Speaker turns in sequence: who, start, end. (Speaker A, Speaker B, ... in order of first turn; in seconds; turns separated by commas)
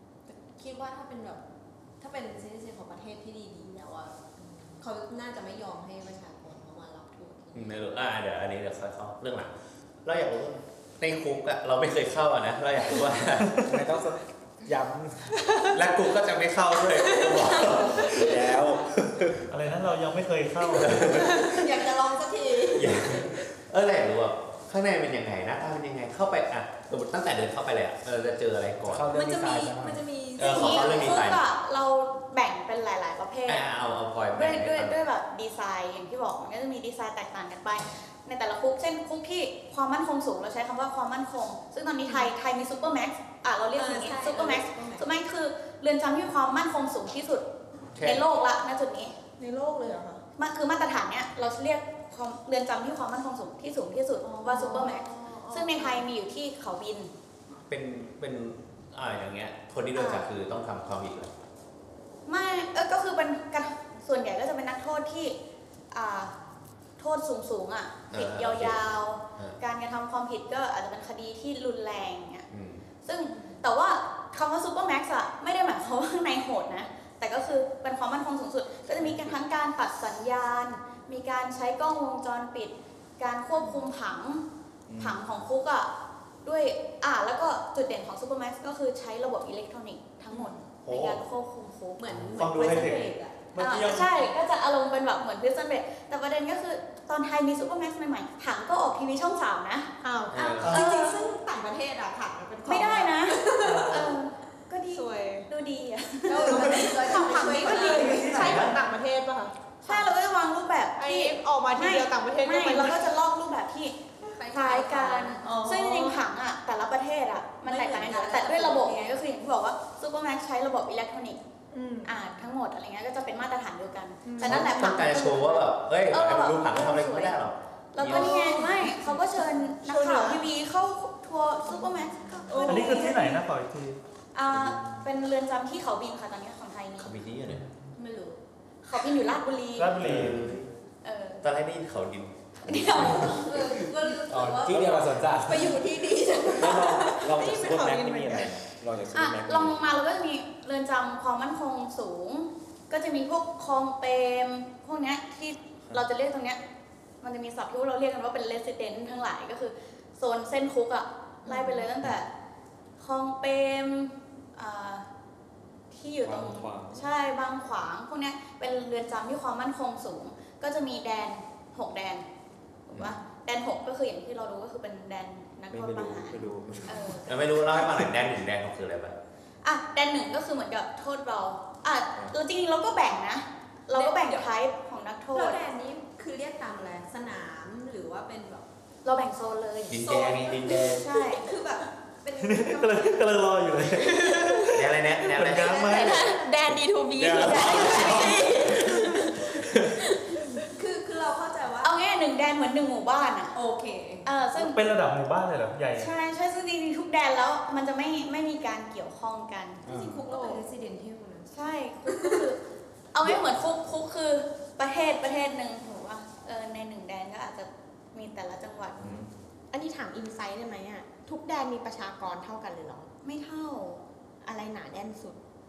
Speaker A: 0.3-1.4, Speaker A: 2.0-4.2, Speaker A: 4.8-7.8, Speaker B: 7.5-13.6, Speaker C: 13.6-15.3, Speaker B: 15.7-18.7, Speaker A: 17.3-17.8, Speaker D: 18.2-19.4, Speaker E: 19.5-21.1, Speaker B: 20.7-21.6, Speaker A: 21.3-23.1, Speaker B: 22.7-29.1, Speaker C: 28.9-30.1, Speaker A: 29.1-31.3, Speaker B: 30.4-31.4, Speaker F: 30.4-33.6, Speaker B: 33.5-35.0, Speaker F: 34.3-47.5, Speaker A: 43.7-45.1, Speaker B: 48.0-48.3, Speaker F: 48.0-49.2, Speaker G: 49.4-50.2, Speaker F: 50.4-57.1, Speaker G: 54.5-56.0, Speaker B: 57.7-61.3, Speaker F: 60.0-60.3, Speaker F: 62.3-65.4, Speaker F: 65.9-66.3, Speaker F: 67.0-72.5, Speaker B: 68.1-69.6, Speaker B: 72.5-72.9, Speaker F: 73.0-84.5, Speaker B: 79.0-79.3, Speaker D: 84.9-85.2, Speaker F: 85.0-85.9, Speaker F: 86.4-101.2, Speaker E: 90.8-91.2, Speaker A: 92.0-93.5, Speaker E: 92.4-94.3, Speaker G: 100.0-100.4, Speaker B: 100.3-100.8, Speaker E: 100.6-100.9, Speaker A: 100.7-104.1, Speaker H: 100.8-101.6, Speaker H: 102.3-103.1, Speaker F: 102.7-107.0, Speaker E: 103.6-104.0, Speaker G: 104.9-105.5, Speaker A: 106.3-108.7, Speaker G: 106.3-110.1, Speaker F: 107.7-108.6, Speaker B: 108.4-108.7, Speaker F: 109.8-114.0, Speaker G: 111.0-113.1, Speaker A: 114.3-115.5, Speaker F: 114.5-121.4, Speaker G: 115.4-116.2, Speaker A: 117.6-119.1, Speaker G: 121.7-122.2, Speaker F: 122.0-133.4, Speaker G: 124.2-124.7, Speaker B: 124.4-128.7, Speaker G: 128.0-130.4, Speaker A: 132.5-132.9, Speaker G: 132.5-133.3, Speaker E: 132.7-134.0, Speaker F: 134.3-137.2, Speaker B: 134.5-134.8, Speaker B: 137.0-137.7, Speaker A: 137.9-138.4, Speaker F: 138.8-140.0, Speaker E: 139.8-140.6, Speaker B: 140.0-140.7, Speaker F: 141.0-141.5, Speaker B: 141.4-143.6, Speaker F: 142.7-143.6, Speaker A: 143.1-147.4, Speaker C: 144.3-145.8, Speaker D: 146.6-149.9, Speaker G: 147.4-148.6, Speaker F: 149.1-156.6, Speaker F: 157.2-162.3, Speaker F: 163.0-165.1, Speaker F: 165.9-172.2, Speaker D: 166.2-167.1, Speaker F: 172.9-177.8, Speaker D: 175.7-177.2, Speaker B: 177.3-179.2, Speaker F: 179.6-185.6, Speaker A: 183.9-184.5, Speaker A: 185.3-188.7, Speaker F: 189.0-190.1, Speaker B: 189.9-191.1, Speaker A: 190.0-194.7, Speaker F: 190.8-191.6, Speaker E: 192.4-196.3, Speaker B: 194.7-195.9, Speaker A: 195.5-199.4, Speaker H: 196.3-197.3, Speaker D: 197.2-198.4, Speaker F: 197.3-198.5, Speaker B: 197.8-198.2, Speaker A: 200.7-202.0, Speaker F: 201.8-203.5, Speaker A: 203.5-204.2, Speaker F: 204.2-204.8, Speaker E: 204.5-206.1, Speaker F: 206.0-209.8, Speaker C: 209.8-210.2, Speaker A: 209.8-212.4, Speaker G: 210.3-210.6, Speaker F: 211.5-212.6, Speaker F: 213.1-219.2, Speaker D: 219.0-219.3, Speaker H: 219.7-223.1, Speaker F: 223.2-224.0, Speaker H: 224.4-225.4